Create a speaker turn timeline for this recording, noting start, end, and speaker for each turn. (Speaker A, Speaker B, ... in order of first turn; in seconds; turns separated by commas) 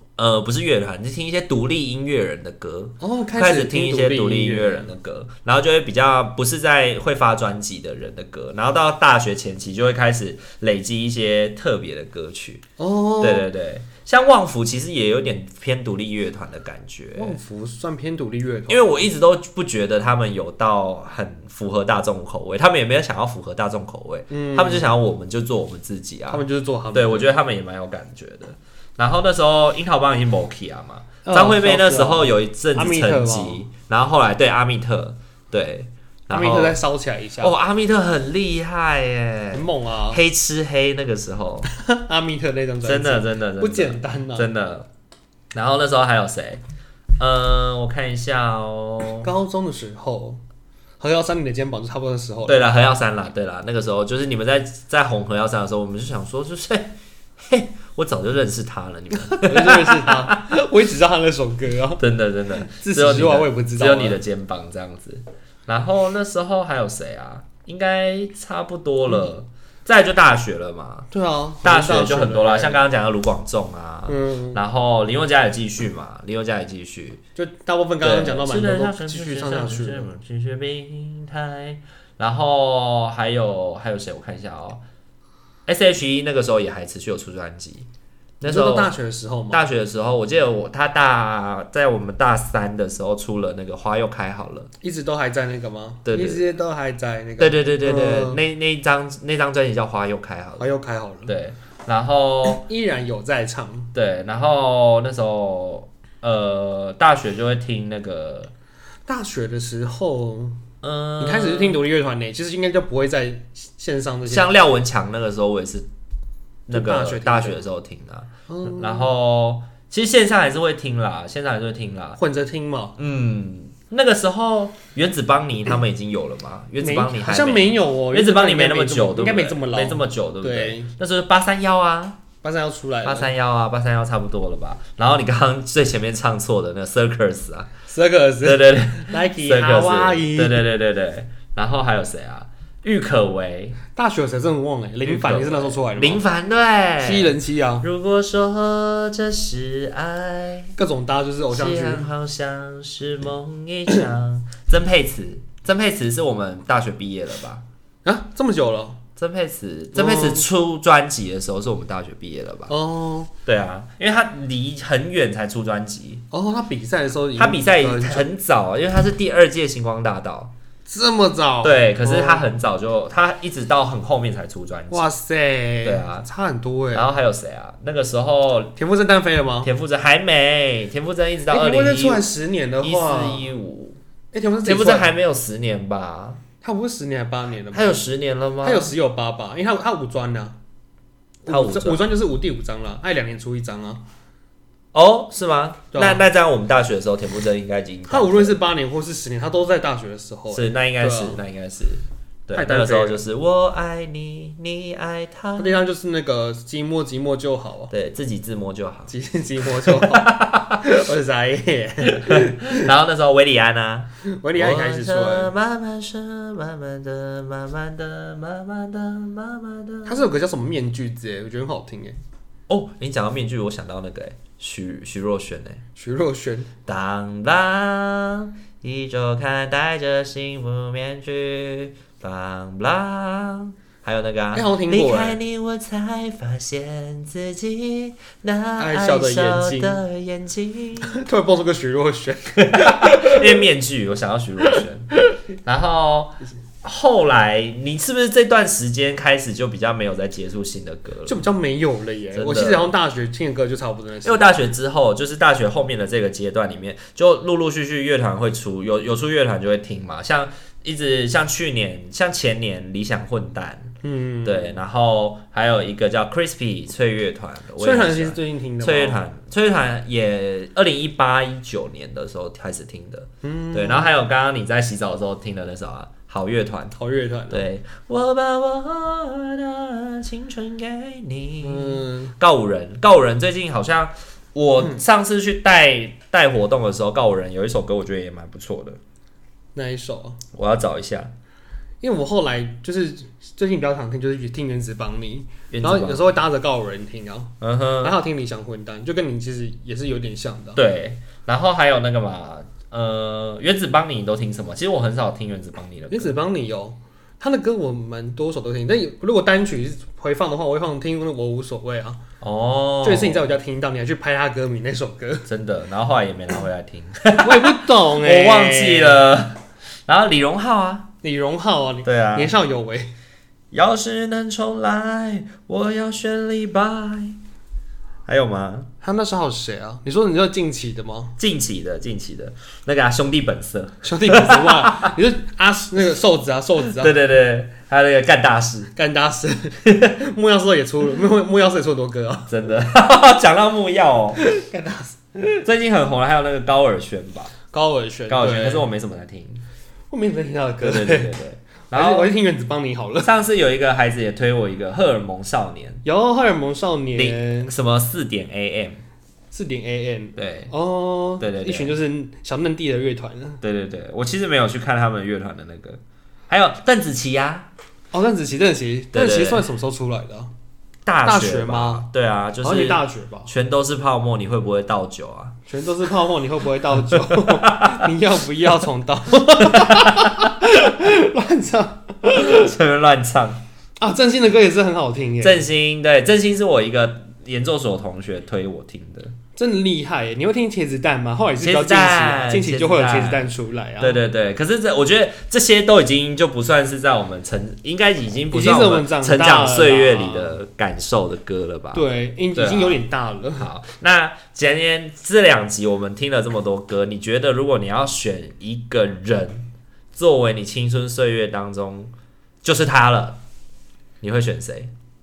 Speaker A: 0.2-12.6, Speaker B: 3.0-4.9, Speaker B: 12.8-13.5, Speaker A: 13.2-17.4, Speaker B: 17.1-19.1, Speaker A: 18.7-36.8, Speaker B: 24.3-24.9, Speaker B: 26.3-27.3, Speaker B: 31.2-33.6, Speaker B: 36.3-37.5, Speaker A: 37.4-41.7, Speaker B: 39.5-40.2, Speaker B: 41.7-44.5, Speaker A: 42.8-44.9, Speaker A: 45.5-46.6, Speaker A: 47.2-49.3, Speaker B: 49.2-50.4, Speaker B: 51.0-52.7, Speaker A: 52.4-60.4, Speaker B: 59.2-62.0, Speaker A: 62.0-71.1, Speaker B: 62.6-64.2, Speaker B: 71.1-72.9, Speaker A: 71.6-77.2, Speaker B: 74.1-74.6, Speaker B: 77.3-80.1, Speaker A: 78.0-84.8, Speaker A: 85.7-87.9, Speaker A: 88.4-88.9, Speaker B: 88.4-89.7, Speaker A: 89.5-94.7, Speaker B: 94.8-98.4, Speaker A: 96.0-96.4, Speaker A: 97.4-100.7, Speaker B: 100.6-101.3, Speaker A: 101.3-102.6, Speaker B: 102.4-103.9, Speaker A: 103.9-108.5, Speaker B: 109.1-110.6, Speaker A: 110.8-111.8, Speaker B: 111.2-114.5, Speaker A: 114.3-115.9, Speaker A: 116.7-122.2, Speaker B: 116.7-117.6, Speaker B: 118.5-119.1, Speaker B: 122.2-123.0, Speaker A: 123.0-132.2, Speaker B: 126.8-130.9, Speaker B: 132.4-133.3, Speaker A: 133.0-137.7, Speaker B: 137.9-140.6, Speaker A: 138.4-143.8, Speaker B: 143.9-146.2, Speaker A: 145.0-150.8, Speaker B: 147.0-147.8, Speaker B: 150.8-152.1, Speaker A: 151.5-157.6, Speaker B: 158.0-159.0, Speaker A: 159.2-162.7, Speaker B: 159.9-160.4, Speaker B: 162.7-163.3, Speaker A: 163.4-166.2, Speaker B: 166.3-168.3, Speaker A: 167.3-170.5, Speaker B: 170.8-172.5, Speaker A: 171.6-175.1, Speaker B: 174.9-177.1, Speaker A: 175.8-176.2, Speaker A: 176.9-178.7, Speaker B: 178.8-179.7, Speaker A: 179.6-182.3, Speaker B: 181.5-183.5, Speaker A: 182.8-184.0, Speaker B: 184.3-185.1, Speaker A: 184.6-186.4, Speaker B: 186.6-188.0, Speaker A: 187.7-188.9, Speaker B: 188.6-190.6, Speaker A: 191.4-192.1, Speaker B: 191.5-194.0, Speaker A: 194.9-198.6, Speaker B: 195.9-196.2, Speaker B: 198.1-201.4, Speaker A: 200.5-205.8, Speaker B: 202.5-203.2, Speaker B: 205.6-207.9, Speaker A: 207.9-209.1, Speaker B: 209.1-212.9, Speaker A: 209.6-210.8, Speaker A: 212.0-220.2, Speaker B: 214.2-215.5, Speaker B: 220.0-222.2, Speaker A: 222.7-225.8, Speaker B: 225.9-226.7, Speaker A: 226.9-241.2, Speaker B: 234.5-235.4, Speaker B: 238.8-240.0, Speaker B: 241.0-243.6, Speaker A: 242.6-245.1, Speaker A: 245.6-251.4, Speaker B: 251.2-254.5, Speaker A: 252.3-252.9, Speaker A: 254.2-276.9, Speaker B: 264.0-264.8, Speaker B: 267.8-269.2, Speaker B: 273.4-274.1, Speaker B: 277.0-277.6, Speaker A: 277.5-289.0, Speaker B: 281.6-282.3, Speaker B: 289.7-290.4, Speaker A: 290.5-291.3, Speaker B: 292.0-300.8, Speaker A: 295.7-296.4, Speaker A: 297.6-298.2, Speaker A: 300.8-306.4, Speaker B: 306.1-312.2, Speaker A: 312.4-313.5, Speaker B: 313.0-315.4, Speaker A: 315.5-321.1, Speaker B: 317.4-319.2, Speaker B: 321.2-323.1, Speaker A: 322.0-322.5, Speaker A: 323.7-327.4, Speaker A: 328.2-328.9, Speaker B: 329.0-331.4, Speaker A: 331.4-335.1, Speaker B: 334.0-337.2, Speaker A: 336.9-338.9, Speaker B: 338.9-342.5, Speaker A: 342.5-344.4, Speaker B: 344.4-345.6, Speaker A: 345.6-347.5, Speaker B: 347.7-348.9, Speaker A: 348.3-349.6, Speaker B: 350.1-351.3, Speaker A: 350.8-352.3, Speaker B: 351.9-353.3, Speaker A: 353.2-356.0, Speaker B: 356.0-357.7, Speaker A: 357.1-359.0, Speaker B: 359.5-363.6, Speaker A: 360.4-360.7, Speaker A: 361.4-361.9, Speaker A: 363.6-367.7, Speaker B: 368.1-370.5, Speaker A: 369.1-369.6, Speaker A: 371.1-375.6, Speaker B: 371.2-372.1, Speaker B: 372.6-373.5, Speaker B: 375.7-382.7, Speaker A: 377.1-378.0, Speaker A: 379.6-380.5, Speaker A: 382.4-383.6, Speaker B: 384.0-385.6, Speaker A: 385.4-389.4, Speaker B: 389.6-394.2, Speaker A: 391.6-403.0, Speaker B: 398.5-400.6, Speaker B: 401.9-403.7, Speaker A: 403.6-412.1, Speaker A: 412.6-413.4, Speaker A: 414.2-414.9